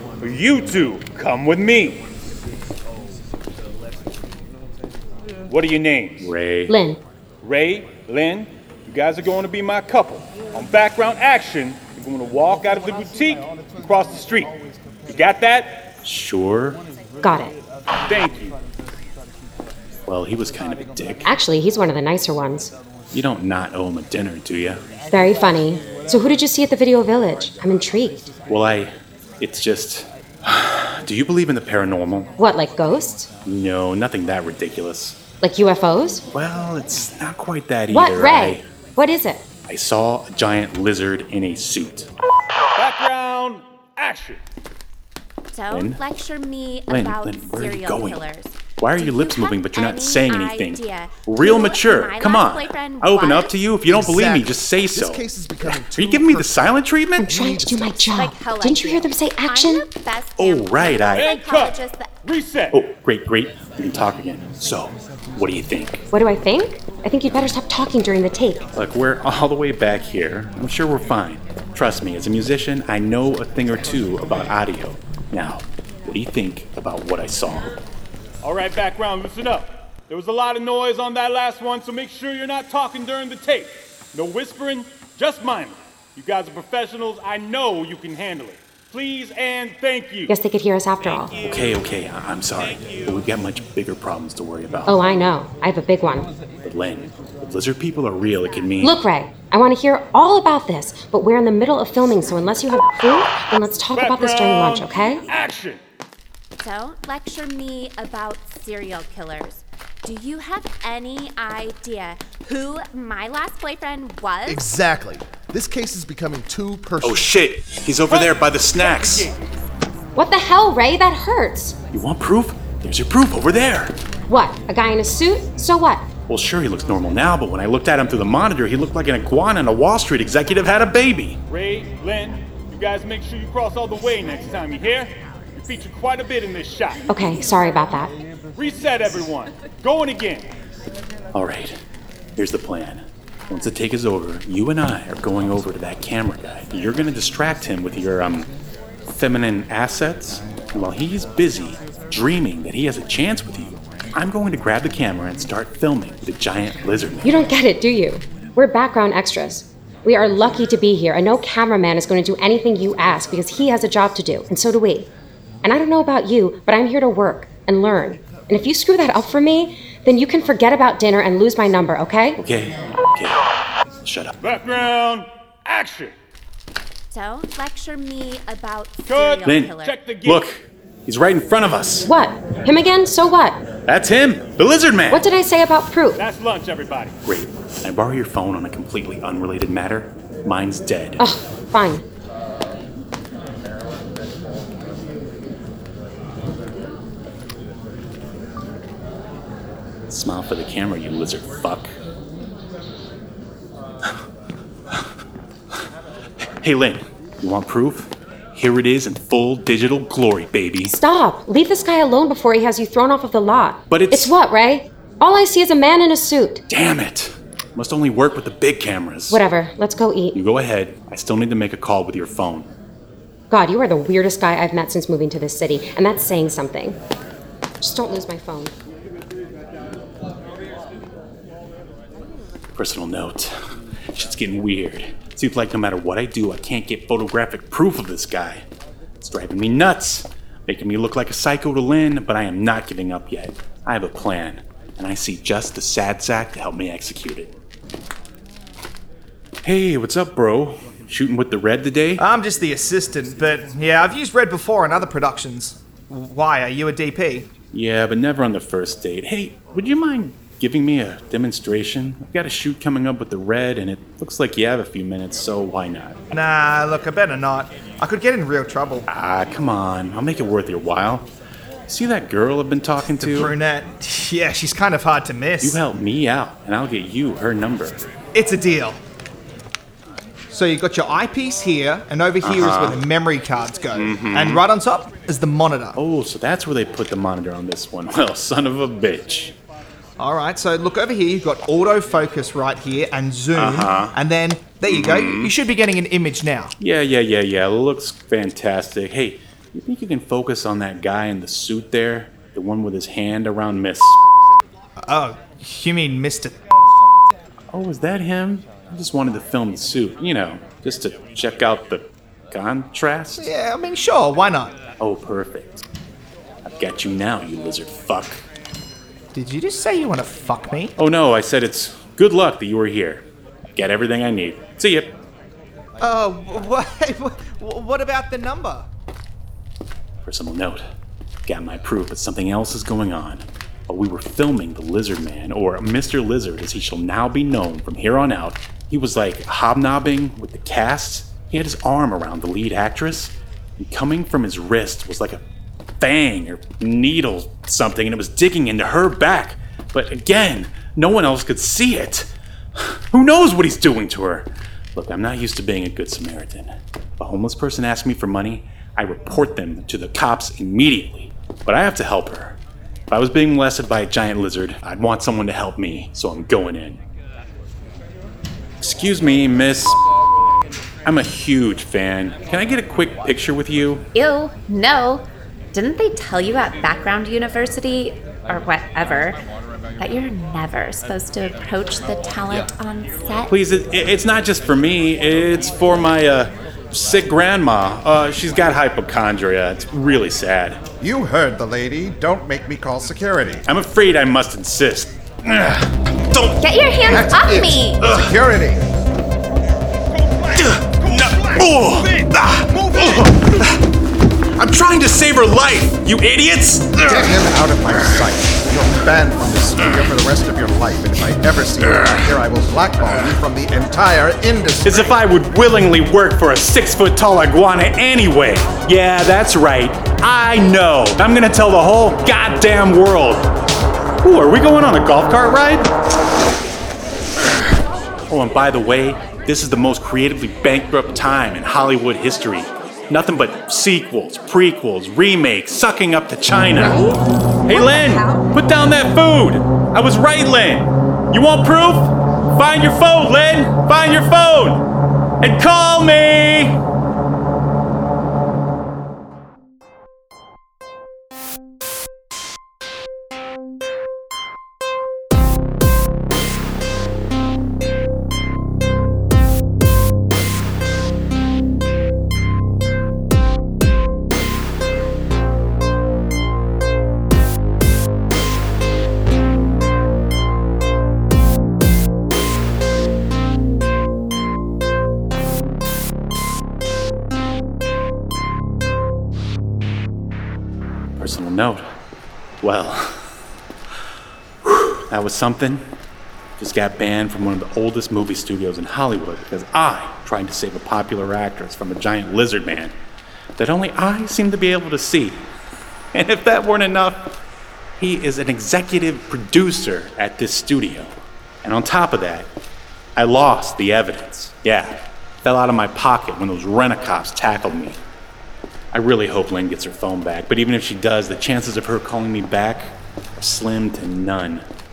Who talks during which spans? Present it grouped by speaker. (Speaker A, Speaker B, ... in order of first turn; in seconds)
Speaker A: 0.2-2.0, 5.5-6.3, 7.4-14.5, 15.1-15.8, 18.1-18.6, 42.8-44.4, 61.1-62.8, 78.4-90.3, 103.9-105.8, 118.1-119.4, 131.5-137.1, 138.6-140.5, 174.4-176.1, 179.1-180.4, 186.2-187.2
Speaker B: 6.2-6.8, 16.0-16.8, 20.1-21.3, 23.1-24.8, 28.5-32.3, 33.5-35.2, 36.3-38.6, 39.7-42.1, 45.7-46.0, 46.9-48.2, 48.8-57.3, 60.4-61.3, 62.7-66.0, 68.8-77.7, 91.4-95.0, 96.6-99.0, 117.0-119.3, 121.9-124.0, 126.3-131.4, 141.3-141.8, 142.4-148.5, 149.1-157.4, 172.4-173.4, 174.0-174.3, 179.4-182.1, 183.9-185.3, 187.2-191.2, 200.1-201.9, 206.6-211.0, 213.9-214.3, 216.7-219.4, 220.3-222.7, 232.7-233.6, 234.1-238.7, 239.2-247.5, 249.7-252.2, 257.7-266.2, 269.1-271.3, 271.9-273.6, 275.6-278.1, 282.4-283.0, 283.9-284.6, 286.0-289.6, 293.6-294.1, 294.9-295.5, 296.8-304.2, 307.7-313.5, 315.0-315.8, 316.6-318.4, 321.0-325.1, 330.2-330.9, 331.5-345.4, 346.0-362.6, 363.1-367.0, 368.8-370.0, 371.1-374.1, 383.5-390.8, 393.7-396.6, 398.0-398.3, 400.6-403.8, 404.6-408.2, 411.9-412.2, 414.8-423.5, 424.2-425.9, 428.3-444.9, 445.4-446.8, 481.2-481.9, 482.6-483.4, 484.6-485.9, 486.6-492.9, 493.6-495.5, 496.1-497.4, 498.0-502.5, 503.2-508.0, 508.9-514.6
Speaker C: 6.7-7.0, 17.2-17.6, 21.3-22.7, 25.1-28.3, 32.4-33.3, 35.4-36.2, 37.9-39.5, 57.2-59.9, 66.1-68.7, 90.3-91.3, 94.9-96.3, 98.8-105.2, 120.2-121.8, 124.3-126.1, 137.1-138.1, 157.2-165.1, 165.6-172.4, 182.1-183.6, 185.1-186.2, 191.2-192.1, 210.9-216.6, 219.3-220.4, 223.5-227.0, 227.8-228.7
Speaker D: 45.5-53.5, 58.1-62.1, 106.6-114.6, 177.1-180.1, 374.1-379.4, 380.0-383.5, 396.6-398.0
Speaker E: 53.9-54.3, 54.9-56.7, 57.3-58.0, 114.5-117.3
Speaker F: 252.2-257.5, 266.3-269.1, 273.1-275.8, 278.3-279.0, 280.5-286.0, 290.2-296.7, 305.1-306.6, 313.4-314.8, 319.3-320.9, 326.0-328.9
Speaker G: 391.0-393.6, 397.1-398.8, 407.1-415.1